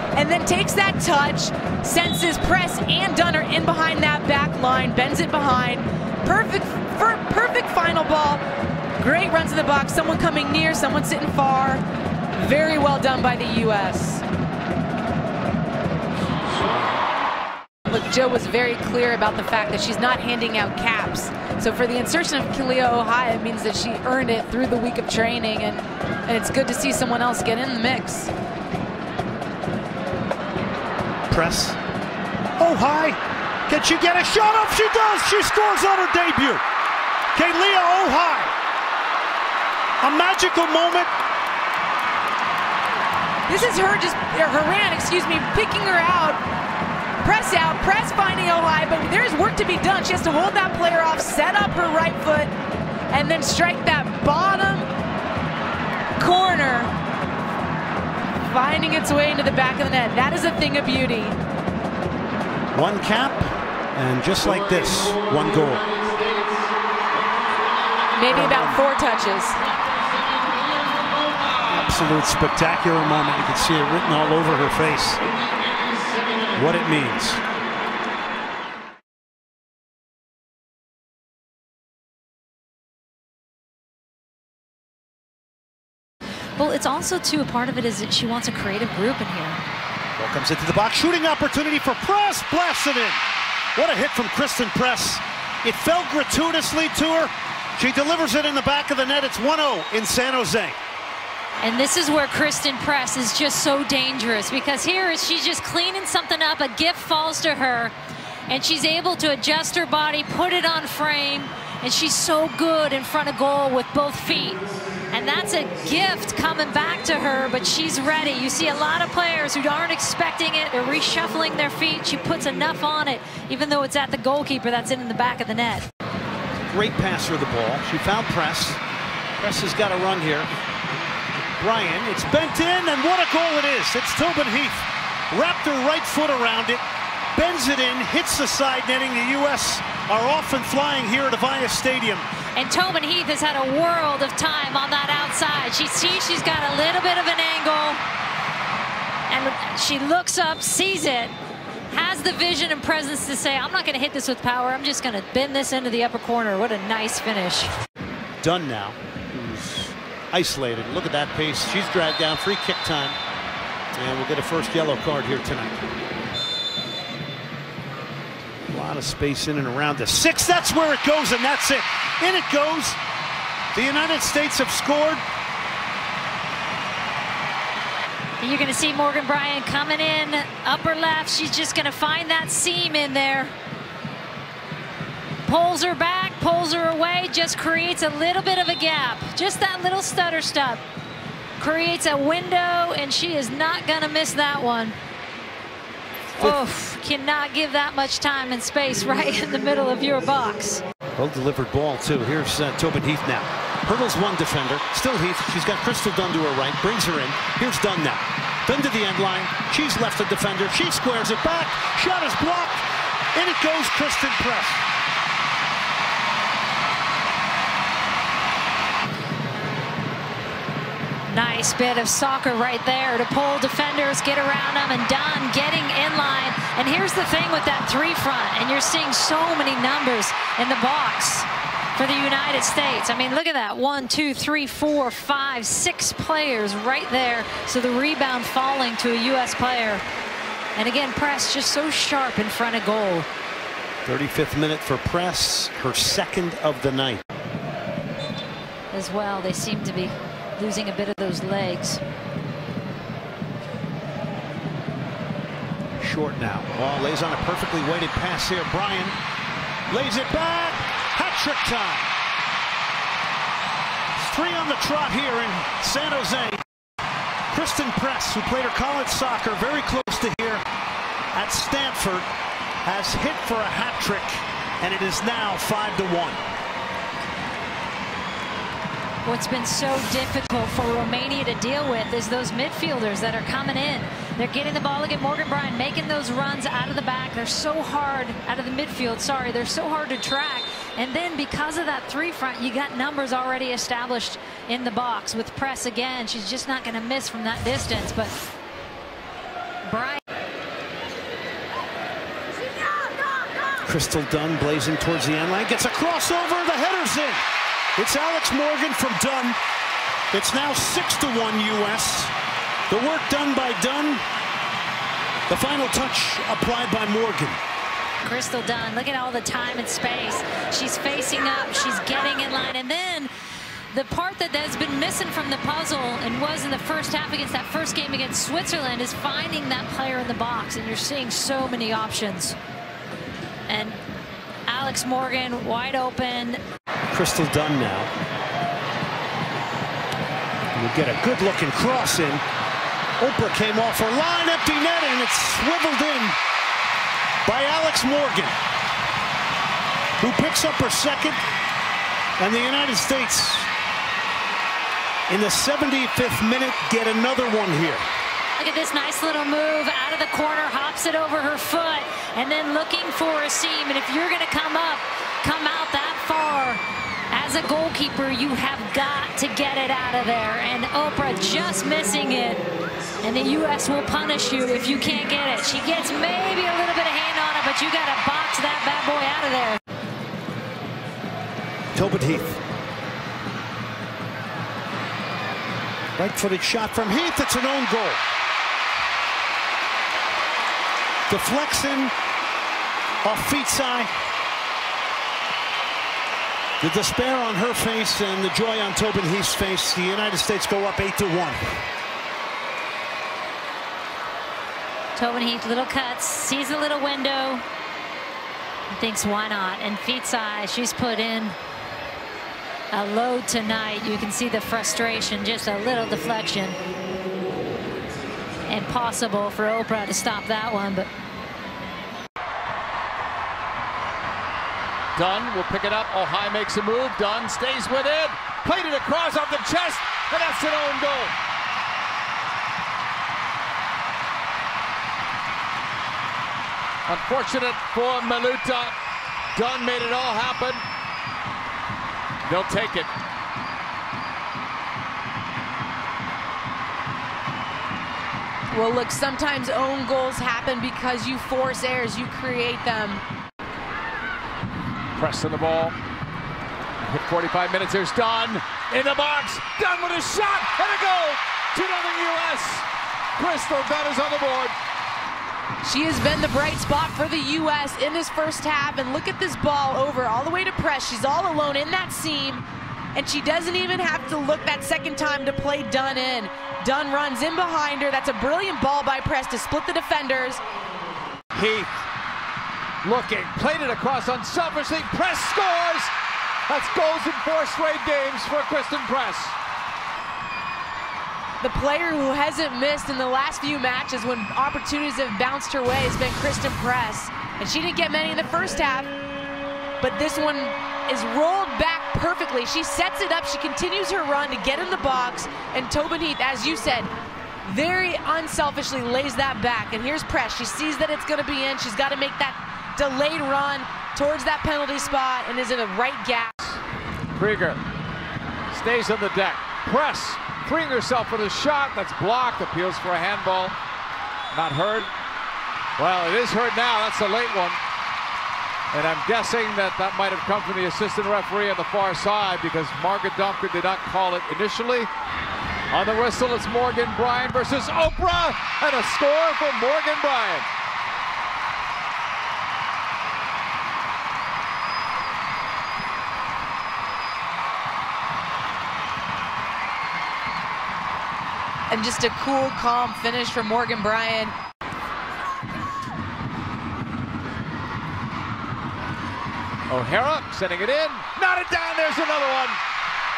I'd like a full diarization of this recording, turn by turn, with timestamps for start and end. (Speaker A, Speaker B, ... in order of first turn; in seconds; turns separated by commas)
Speaker A: 0.1-8.4, Speaker A: 9.0-11.8, Speaker A: 12.3-14.2, Speaker A: 17.9-28.3, Speaker B: 31.3-31.8, Speaker B: 32.6-36.6, Speaker B: 37.3-38.5, Speaker B: 40.0-41.1, Speaker A: 43.5-46.4, Speaker A: 47.2-52.5, Speaker A: 53.1-54.9, Speaker A: 56.2-56.9, Speaker A: 58.5-61.4, Speaker B: 62.7-66.0, Speaker A: 68.1-69.6, Speaker B: 68.3-68.8, Speaker B: 71.7-75.2, Speaker B: 76.5-77.4, Speaker C: 86.6-89.6, Speaker B: 90.2-93.2, Speaker B: 93.8-100.8, Speaker C: 101.6-107.9, Speaker C: 108.5-114.6, Speaker C: 115.1-125.9, Speaker B: 126.5-128.8, Speaker B: 129.4-130.5, Speaker B: 131.5-136.8, Speaker B: 137.3-142.3, Speaker C: 142.6-148.0, Speaker C: 149.3-151.3, Speaker C: 151.9-157.7, Speaker B: 158.4-163.2, Speaker B: 163.9-165.8, Speaker B: 168.7-173.0, Speaker B: 173.7-175.2, Speaker C: 178.4-183.5, Speaker C: 185.4-190.8, Speaker C: 191.6-195.0, Speaker C: 196.4-200.8, Speaker B: 201.2-214.8, Speaker C: 221.3-240.0, Speaker C: 240.8-243.3, Speaker B: 244.0-247.2, Speaker C: 248.9-252.0, Speaker B: 256.0-259.2, Speaker B: 259.9-262.1, Speaker B: 264.1-266.6, Speaker B: 267.5-270.6, Speaker B: 271.3-272.3, Speaker B: 272.8-276.4, Speaker C: 279.2-298.3, Speaker C: 299.9-300.2, Speaker B: 303.8-307.4, Speaker B: 308.0-309.6, Speaker B: 310.3-312.3, Speaker B: 312.9-314.2, Speaker B: 315.5-317.6, Speaker C: 318.2-323.3, Speaker C: 323.9-332.6, Speaker C: 333.7-334.0, Speaker C: 334.7-336.6, Speaker B: 337.1-338.1, Speaker B: 340.7-342.4, Speaker B: 343.2-346.4, Speaker B: 347.4-348.6, Speaker B: 350.2-351.4, Speaker B: 352.4-353.7, Speaker B: 355.3-358.1, Speaker C: 358.6-372.6, Speaker C: 373.2-379.8, Speaker B: 381.9-382.6, Speaker B: 386.1-388.2, Speaker B: 391.3-392.1, Speaker B: 393.2-394.1, Speaker B: 396.8-401.8, Speaker C: 405.1-407.6, Speaker C: 408.9-411.6, Speaker C: 412.9-416.8, Speaker C: 418.7-421.1, Speaker D: 425.1-431.3, Speaker D: 437.1-439.0, Speaker D: 439.5-440.8, Speaker D: 442.4-443.1, Speaker A: 448.7-453.2, Speaker D: 455.1-456.0, Speaker D: 457.0-464.8, Speaker A: 465.8-472.6, Speaker A: 473.1-480.6, Speaker D: 481.5-481.9, Speaker D: 483.0-486.1, Speaker D: 486.7-489.6, Speaker A: 491.6-499.1, Speaker A: 500.0-507.1, Speaker A: 507.6-516.5, Speaker D: 517.4-517.8, Speaker D: 518.7-523.8, Speaker D: 524.5-525.1, Speaker D: 526.0-527.8, Speaker D: 528.9-535.1, Speaker D: 535.9-540.7, Speaker A: 551.9-554.5, Speaker D: 559.9-562.8